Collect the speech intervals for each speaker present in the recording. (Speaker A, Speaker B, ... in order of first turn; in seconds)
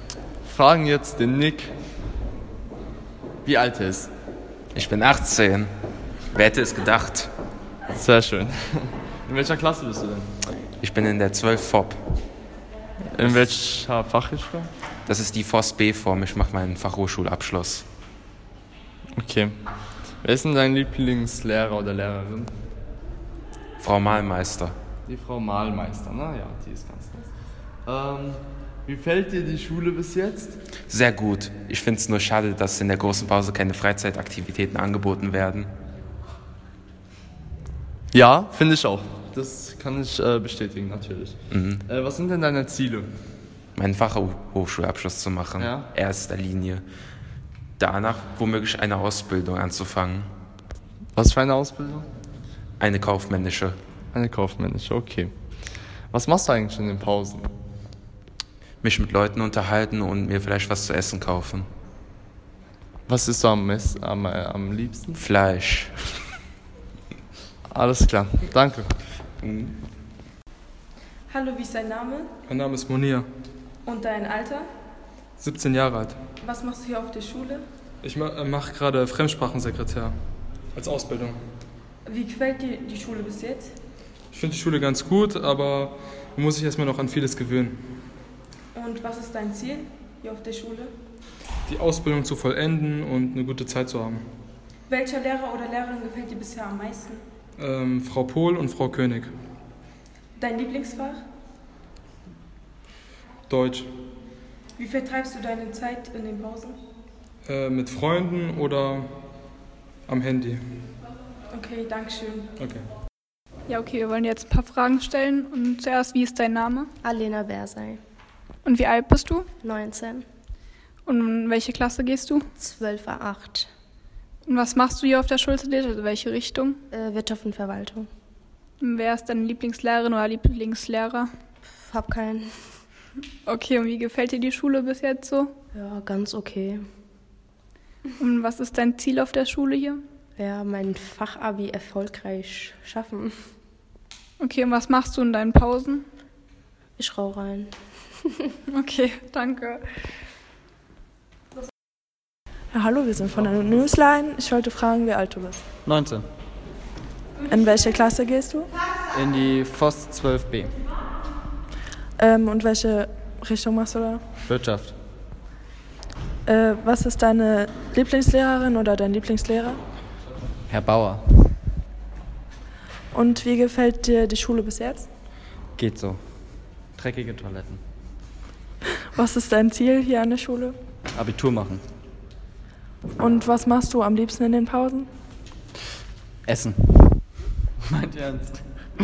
Speaker A: 0.4-1.7, 3.5-4.1, 7.9-10.3, 13.1-14.7, 19.2-19.5, 20.2-22.5, 25.1-27.3, 27.9-30.6, 38.1-43.1, 45.6-45.9, 51.2-52.1, 54.1-55.3, 56.1-57.5, 63.1-65.2, 67.7-68.9
Speaker B: 4.7-5.7, 6.3-7.3, 10.8-12.0, 15.1-17.9, 23.8-24.8, 30.9-35.7, 41.5-41.8, 43.8-46.8, 47.8-50.3, 52.8-53.8, 58.8-61.7, 65.1-66.0, 69.4-69.8
Speaker C: 71.3-72.3, 73.8-74.7, 76.4-77.6, 82.1-83.8, 88.7-90.9, 94.9-97.2, 100.4-101.2, 104.8-106.8, 111.5-112.5
Speaker D: 72.5-73.3, 75.4-76.2, 78.0-80.2, 80.8-81.4, 84.3-87.8, 91.7-94.2, 97.6-99.3, 103.5-103.9, 107.5-109.1, 110.1-110.6, 112.6-112.8
Speaker E: 113.7-116.9, 118.7-119.5, 121.1-122.4, 124.5-126.8, 128.8-131.3, 133.4-135.5, 138.2-140.0, 144.4-146.1, 148.7-149.8
Speaker F: 117.0-118.0, 119.6-120.3, 122.6-123.7, 126.9-128.1, 131.7-132.8, 135.7-136.8, 140.4-143.4, 147.0-148.3
Speaker G: 152.7-155.6, 157.5-158.7, 162.2-164.2, 166.5-169.8, 173.1-175.1, 179.2-180.8, 183.2-185.1
Speaker H: 155.8-156.3, 159.1-160.8, 164.4-164.9, 170.7-171.4, 175.7-176.2, 176.9-177.8, 181.1-181.8, 186.5-187.2, 187.8-188.7